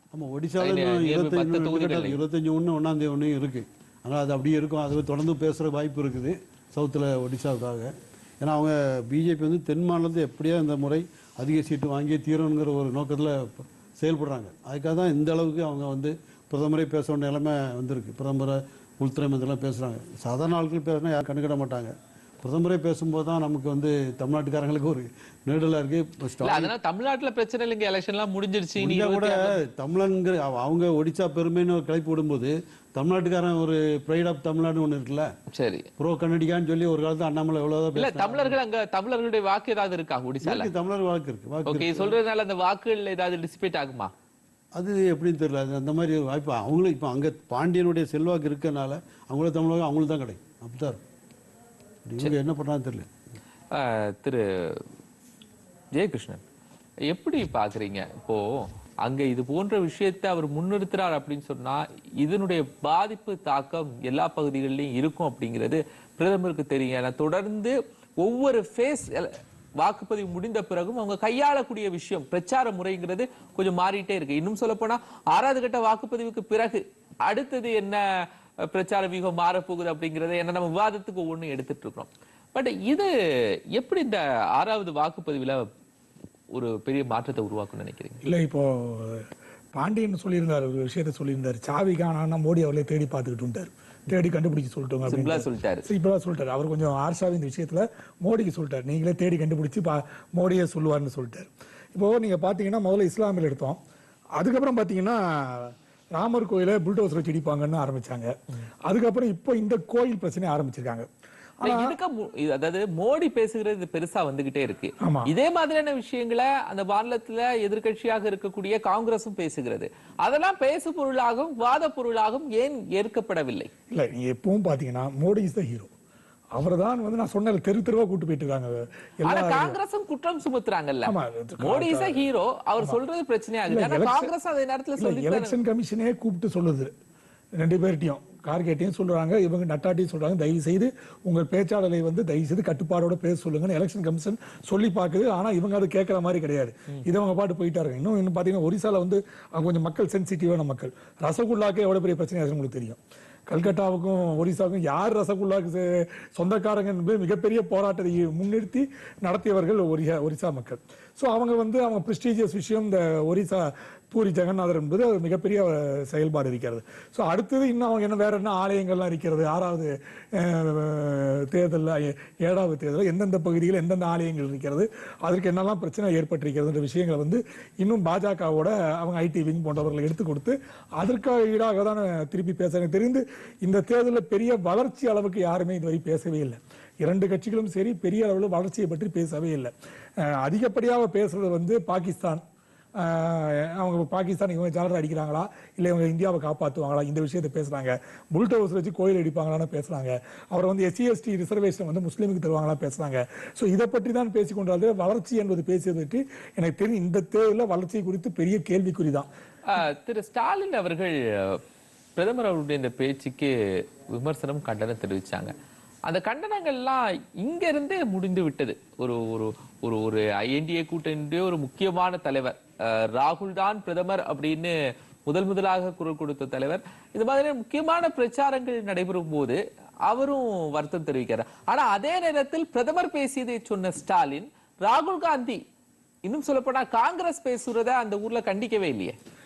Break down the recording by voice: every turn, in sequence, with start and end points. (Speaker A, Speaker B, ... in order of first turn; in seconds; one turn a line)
Speaker A: 0.1-26.7
Speaker B: 0.6-2.2
Speaker B: 26.4-29.5
Speaker A: 28.8-35.3
Speaker B: 35.5-35.9
Speaker A: 36.0-38.6
Speaker B: 38.0-40.7
Speaker A: 40.4-42.2
Speaker B: 41.6-44.1
Speaker A: 44.8-51.0
Speaker A: 52.0-53.1
Speaker B: 53.7-54.9
Speaker B: 55.9-56.4
Speaker B: 57.1-83.1
Speaker B: 83.7-85.7
Speaker B: 86.5-88.2
Speaker C: 88.2-103.8
Speaker B: 95.1-95.9
Speaker C: 104.4-108.3
Speaker C: 108.9-111.1
Speaker C: 111.6-112.0
Speaker B: 111.6-123.7
Speaker C: 115.0-115.3
Speaker C: 123.9-125.9
Speaker C: 126.5-129.8
Speaker B: 129.2-135.6
Speaker C: 131.1-132.3
Speaker C: 133.7-134.3
Speaker C: 135.0-136.9
Speaker C: 137.6-192.4
Speaker C: 193.0-209.3
Speaker B: 209.7-211.6
Speaker B: 212.2-215.5
Speaker B: 216.1-235.6
Speaker B: 236.2-239.2